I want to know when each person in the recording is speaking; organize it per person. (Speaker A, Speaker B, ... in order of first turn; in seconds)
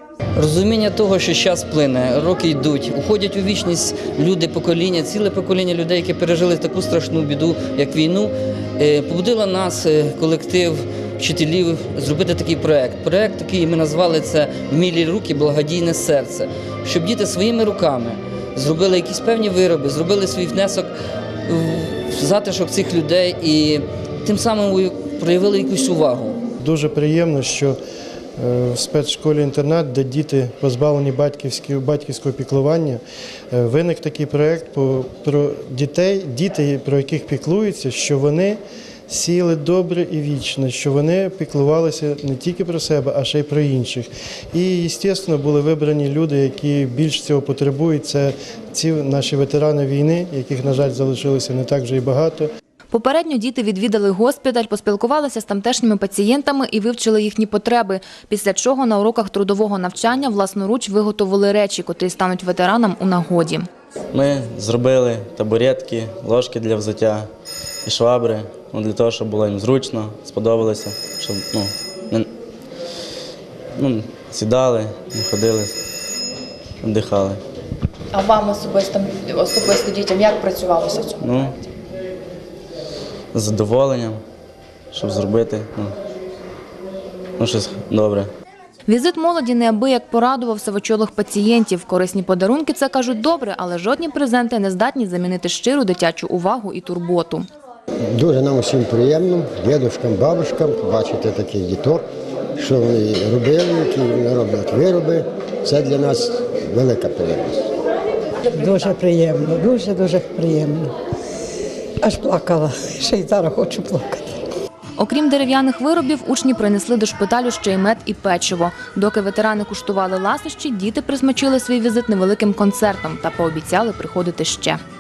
Speaker A: 0.4-20.9, 21.5-26.4
Speaker B: 26.6-27.8, 28.4-33.0, 33.5-52.5
Speaker C: 52.9-63.7, 88.9-97.4, 115.0-124.8
Speaker D: 64.1-67.3, 67.8-72.3, 73.8-75.8, 76.8-77.4, 81.2-81.6, 83.3-84.2, 84.9-86.0, 87.4-88.3
Speaker E: 78.1-81.2
Speaker F: 98.1-102.1, 102.6-107.7
Speaker G: 108.7-110.9, 112.0-114.3